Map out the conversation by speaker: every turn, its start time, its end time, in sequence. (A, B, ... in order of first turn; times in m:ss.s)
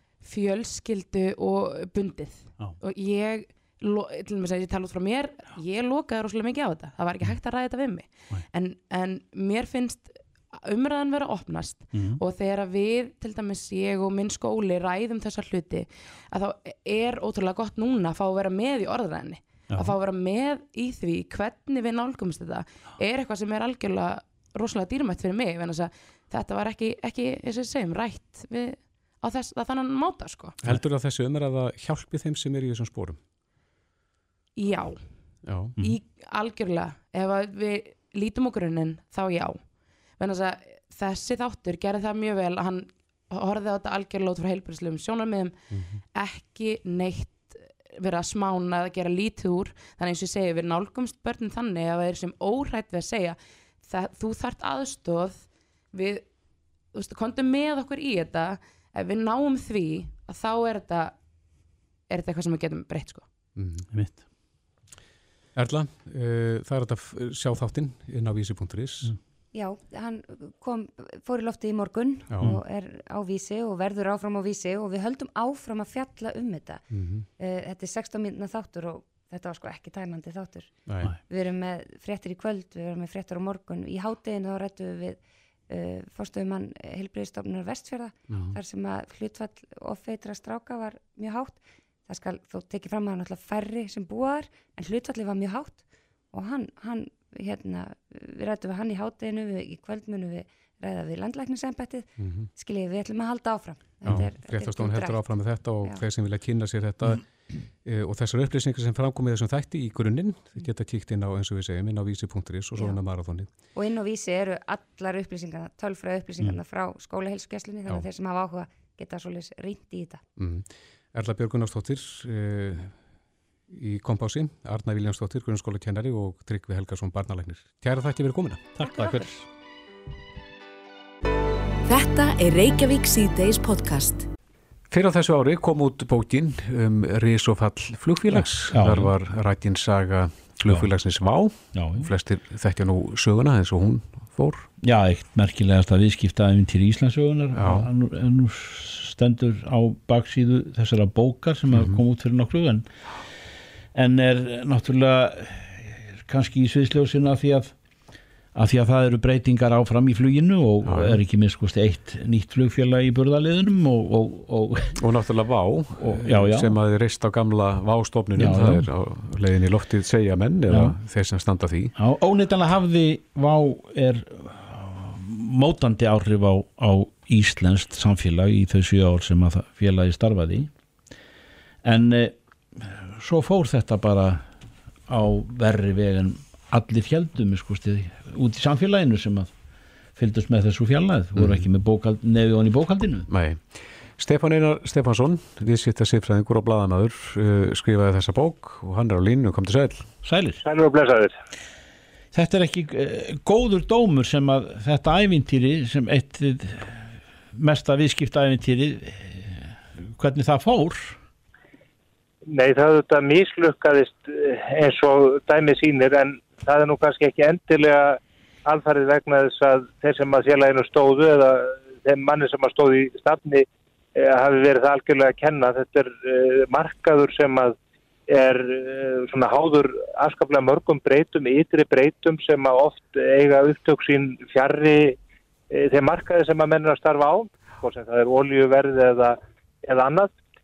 0:00.2-0:30.6 A
0:11.9-0:12.2 B
0:19.7-0:20.0 B
0:30.6-0:33.2 C
0:34.6-0:35.0 A
0:35.4-0:35.7 C
0:35.8-0:39.6 A
0:40.2-0:45.5 A
0:45.7-0:46.0 C
0:46.1-0:56.3 A
0:56.9-1:01.1 A
1:02.1-1:03.3 A
1:03.6-1:03.8 C
1:03.9-1:04.2 B
1:05.5-1:09.1 C
1:09.5-1:16.8 D
1:12.3-1:12.6 C
1:16.9-1:17.2 C
1:17.4-1:46.0 D
1:20.9-1:21.1 C
1:28.3-1:28.6 C
1:42.2-1:42.5 C
1:44.0-1:47.2 C
1:47.8-1:53.5 C
1:53.7-2:00.2 D
2:00.4-2:02.9 C
2:03.7-2:08.6 C
2:08.8-2:09.4 B
2:08.8-2:09.2 D
2:11.8-2:14.2 E
2:14.9-2:24.7 C
2:18.3-2:19.1 B
2:21.7-2:22.1 B
2:24.8-2:32.9 B
2:27.5-2:27.9 C
2:31.7-2:32.0 C
2:33.9-2:37.7 B
2:38.5-2:45.0 B
2:40.8-2:41.2 C
2:45.0-2:51.9 C
2:46.0-2:46.7 B
2:48.4-2:48.9 B
2:50.7-2:51.0 B
2:52.0-3:00.7 B
3:01.8-3:04.4 B
3:05.1-3:09.5 B
3:10.2-3:13.3 B
3:11.4-3:11.6 C
3:13.3-3:13.7 C
3:14.2-3:20.0 C
3:20.2-3:20.6 B
3:20.6-3:21.3 F
3:22.3-3:27.0 B
3:27.5-3:31.2 B
3:32.5-3:47.8 F
3:48.3-3:55.2 F
3:55.7-4:00.3 F